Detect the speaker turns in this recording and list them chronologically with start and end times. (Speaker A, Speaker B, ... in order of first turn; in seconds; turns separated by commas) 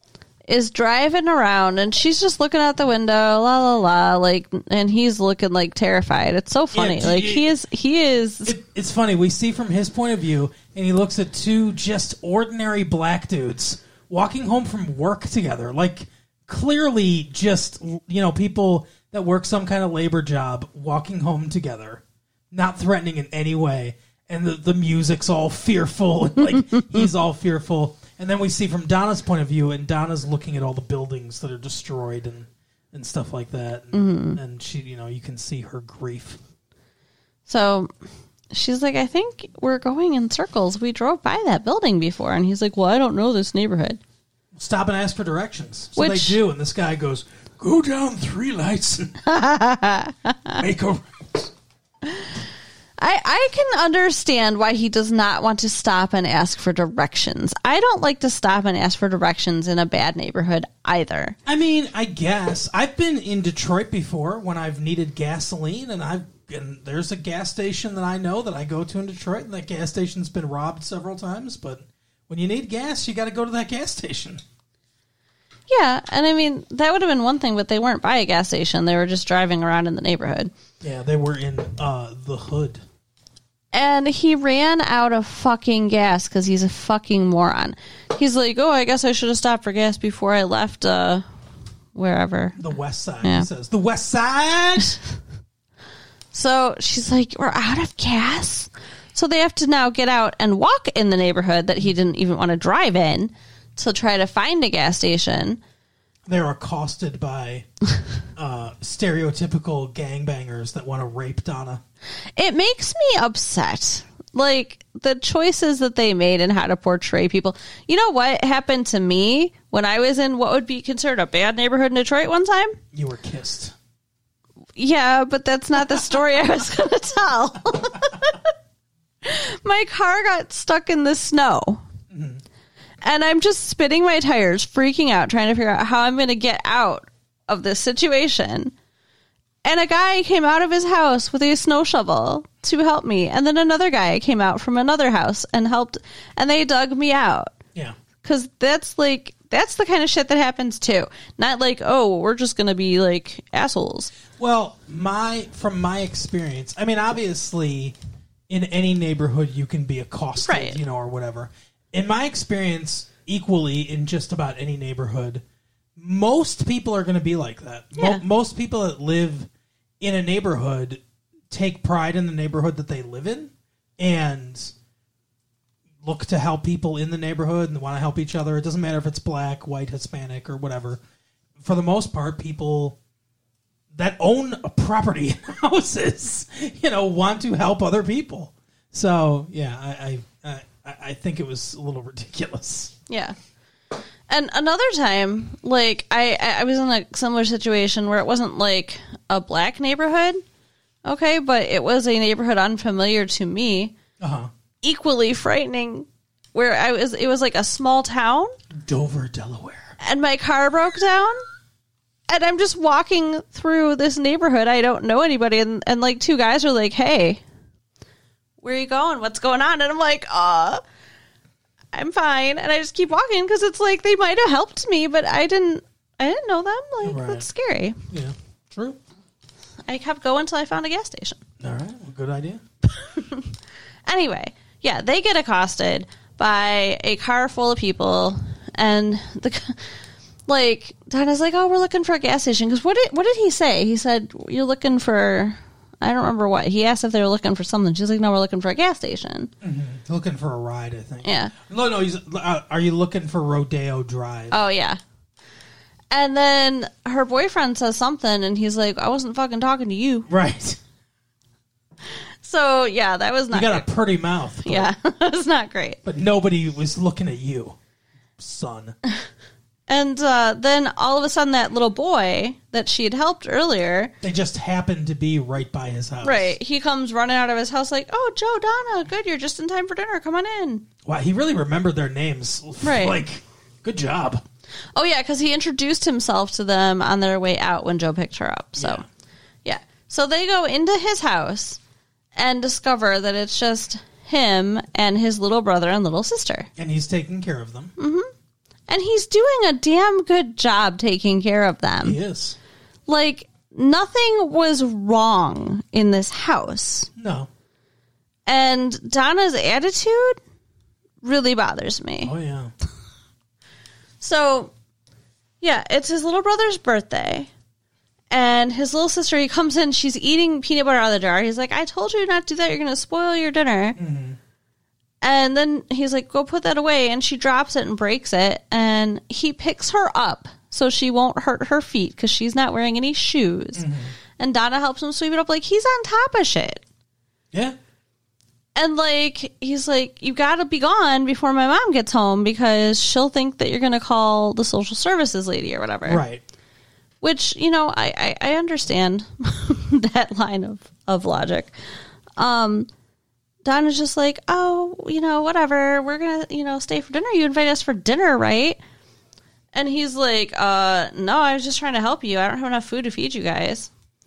Speaker A: 0.5-8.5, Speaker B: 6.7-7.5, Speaker B: 8.4-36.4, Speaker A: 26.7-27.0, Speaker A: 33.9-34.4, Speaker A: 37.5-37.9, Speaker A: 38.5-44.0, Speaker B: 44.5-49.2, Speaker A: 46.0-46.4, Speaker A: 49.2-50.6, Speaker B: 50.5-51.5, Speaker A: 52.0-52.3, Speaker A: 53.0-61.4, Speaker B: 61.5-74.4, Speaker A: 75.7-80.5, Speaker B: 80.8-82.8, Speaker A: 83.7-91.2, Speaker A: 91.9-92.6, Speaker B: 92.6-95.0, Speaker A: 93.2-93.5, Speaker A: 96.3-105.6, Speaker B: 106.3-107.7, Speaker B: 108.3-111.8, Speaker A: 112.4-122.8, Speaker B: 122.9-123.7, Speaker A: 124.8-128.5, Speaker A: 129.2-131.8, Speaker B: 132.1-132.4, Speaker A: 133.0-138.7, Speaker A: 139.6-147.5, Speaker A: 148.2-154.1, Speaker B: 154.4-158.0, Speaker B: 158.5-165.4, Speaker A: 160.4-160.8, Speaker B: 166.0-169.5, Speaker A: 167.9-168.2, Speaker B: 170.0-174.7, Speaker B: 176.0-181.0, Speaker B: 181.6-183.0, Speaker B: 183.9-192.9, Speaker A: 193.1-193.3, Speaker A: 194.3-200.4, Speaker A: 201.1-203.9, Speaker B: 204.2-204.5, Speaker A: 204.8-208.5, Speaker B: 208.7-209.9, Speaker A: 210.0-211.4, Speaker A: 212.3-217.4, Speaker A: 218.6-220.8, Speaker A: 221.9-228.0, Speaker B: 227.0-227.4, Speaker B: 228.1-229.0, Speaker A: 229.8-231.4, Speaker B: 231.6-232.6, Speaker A: 232.9-233.5, Speaker A: 234.1-239.9, Speaker A: 240.5-249.5, Speaker B: 249.6-254.6, Speaker A: 251.2-251.5, Speaker A: 254.5-255.0, Speaker A: 256.1-260.3, Speaker B: 260.3-260.8, Speaker A: 262.1-263.9, Speaker B: 263.5-264.9, Speaker A: 264.6-266.0, Speaker B: 266.0-267.8, Speaker B: 268.4-268.9, Speaker A: 269.9-274.1, Speaker B: 274.2-276.6, Speaker A: 276.2-280.9, Speaker B: 281.0-284.4, Speaker A: 282.8-283.2, Speaker A: 284.9-289.0, Speaker B: 288.8-289.0, Speaker A: 289.6-291.8, Speaker A: 292.4-296.7, Speaker B: 296.8-297.9, Speaker A: 298.0-298.3, Speaker A: 298.9-302.2, Speaker B: 302.0-302.6, Speaker A: 303.1-307.1, Speaker B: 307.1-307.5, Speaker A: 308.4-310.4, Speaker A: 311.2-312.3, Speaker B: 312.2-312.7, Speaker A: 314.2-314.7, Speaker A: 315.6-317.5, Speaker A: 318.3-324.0, Speaker B: 324.0-324.4, Speaker A: 325.2-336.8, Speaker B: 333.8-334.1, Speaker A: 338.8-346.2, Speaker B: 346.1-346.4, Speaker A: 347.2-351.7, Speaker A: 352.4-352.9, Speaker A: 353.6-358.8, Speaker A: 359.7-363.9